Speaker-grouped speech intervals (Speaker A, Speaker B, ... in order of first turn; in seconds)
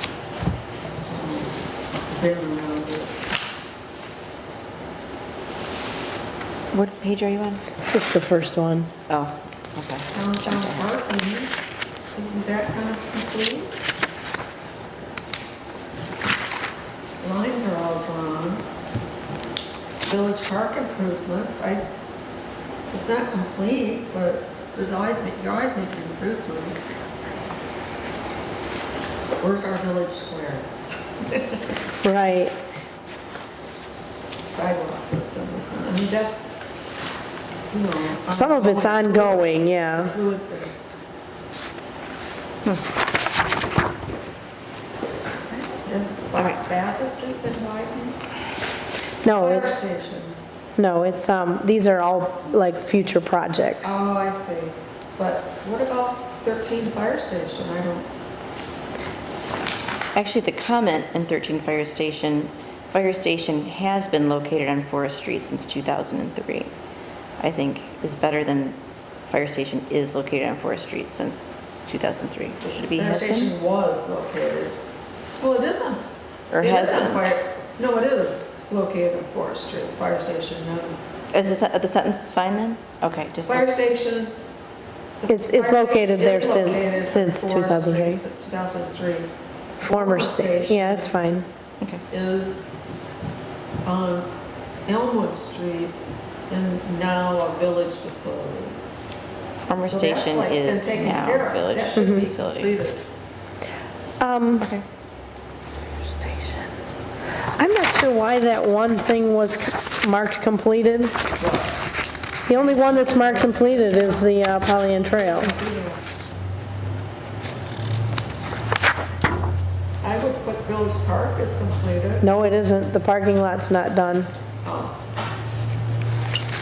Speaker A: 1.1-1.6, 2.1-3.3, 10.1-11.5, 12.1-13.7, 17.2-18.6, 20.0-21.9, 22.9-27.0, 29.4-30.7, 31.2-31.7, 34.5-36.6, 37.7-40.7, 45.5-48.2, 49.3-50.4, 53.8-58.1, 72.9-74.8, 75.4-76.0, 76.6-81.0, 83.5-84.3, 85.2-89.3, 89.8-91.2, 92.1-92.8, 93.8-94.3, 94.8-96.0, 96.5-98.8, 99.8-103.0, 111.4-111.8, 112.5-114.4, 115.0-116.0, 120.0-122.3, 124.6-125.0
Speaker B: 6.7-7.6, 9.1-10.9, 60.1-66.7, 67.4-73.5, 76.5-77.2, 81.3-83.7, 99.7-102.7, 104.6-104.8
Speaker C: 7.9-8.9, 32.0-32.5, 38.3-40.1, 49.2-49.8, 50.8-54.0, 85.3-88.2, 89.8-91.5, 101.9-102.3, 104.2-104.7, 106.0-106.7, 107.5-111.2, 112.5-115.5, 122.2-124.3